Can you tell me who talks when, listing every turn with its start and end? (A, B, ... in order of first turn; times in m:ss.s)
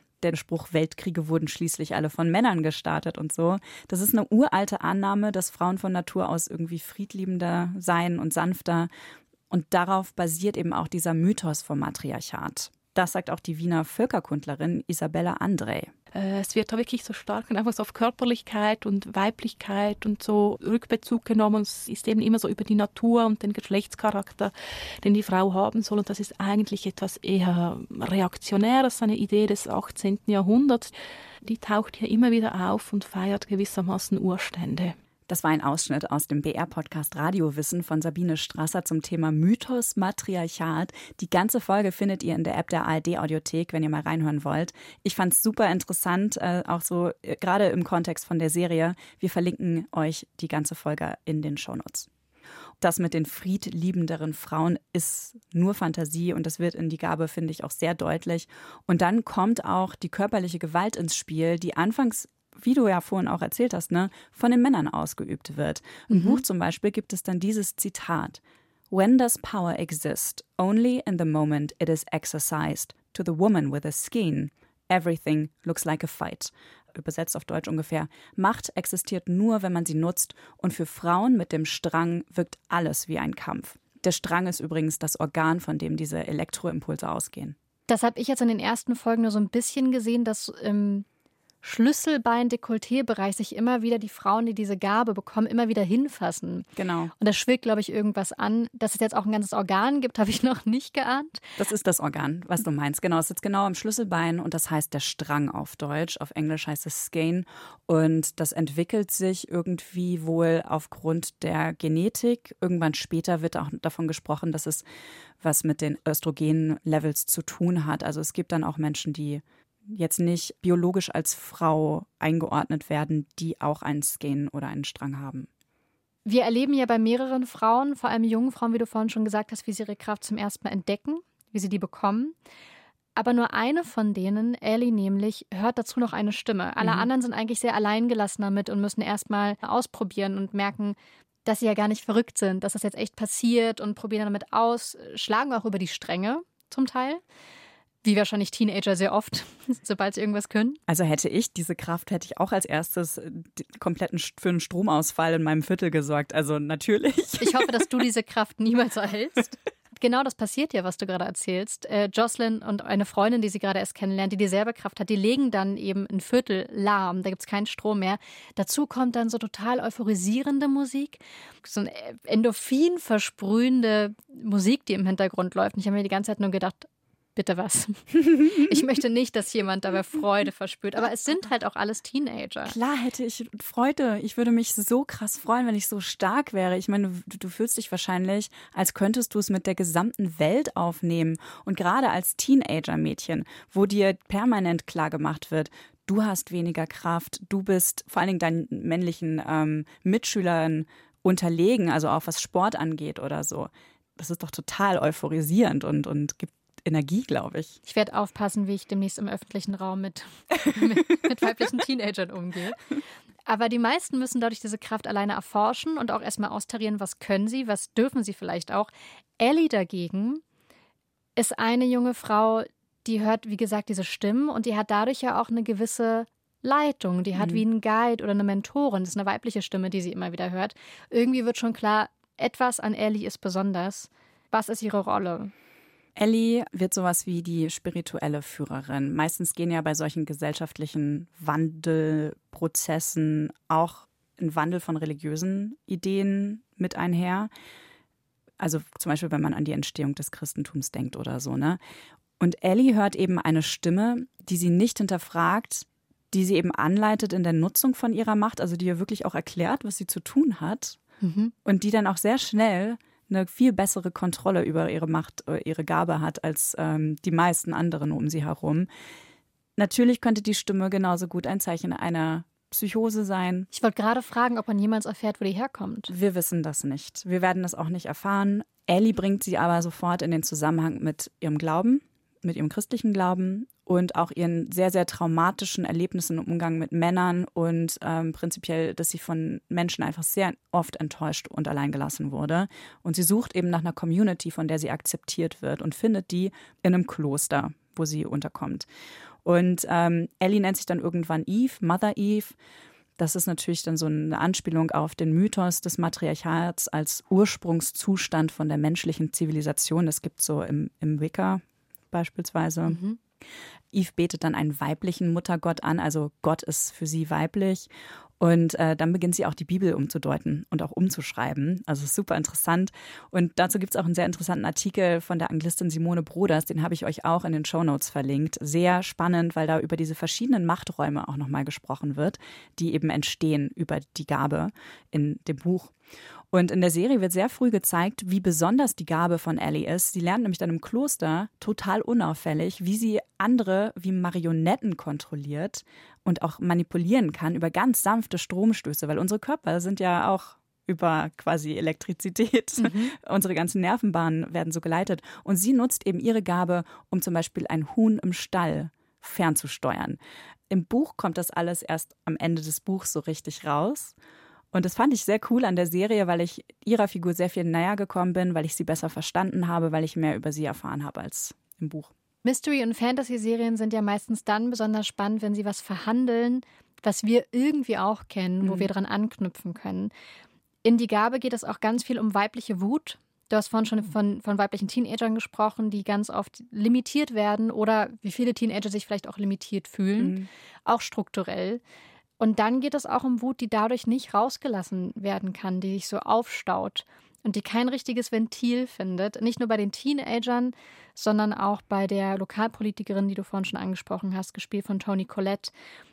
0:00.2-0:08.9 A
0:09.5-0:15.9 A
0:16.1-0:30.9 B
0:31.4-0:35.0 B
0:35.3-0:52.1 A
0:52.8-1:27.6 A
1:06.1-1:06.4 C
1:27.9-1:31.1 C
1:31.6-1:36.7 C
1:36.8-1:37.1 A
1:37.2-1:41.6 C
1:41.6-1:54.8 A
1:55.4-2:05.5 A
2:06.2-2:12.4 C
2:13.2-2:27.2 C
2:16.8-2:17.1 A
2:28.0-2:30.8 C
2:30.9-2:37.9 A
2:37.4-3:02.8 C
2:58.3-2:58.7 A
3:02.6-3:27.8 A
3:27.9-3:32.8 C
3:33.5-3:40.4 C
3:41.4-3:55.5 C
3:47.4-3:47.6 A
3:56.2-4:07.5 A
4:08.6-4:11.8 A
4:12.4-4:21.0 A
4:21.2-4:21.5 C
4:21.6-4:28.9 A
4:29.8-4:33.7 A
4:33.7-4:36.1 C
4:36.1-4:58.9 A
4:59.4-5:02.6 A
5:03.2-5:13.0 A
5:12.9-5:13.2 C
5:13.9-5:35.9 A
5:36.5-6:00.2 A
5:52.8-5:53.2 C
6:00.7-6:04.2 A
6:04.7-6:12.1 A
6:12.4-6:20.1 C
6:18.6-6:18.9 A
6:20.8-6:31.8 C
6:30.2-6:30.5 A
6:32.4-6:45.7 C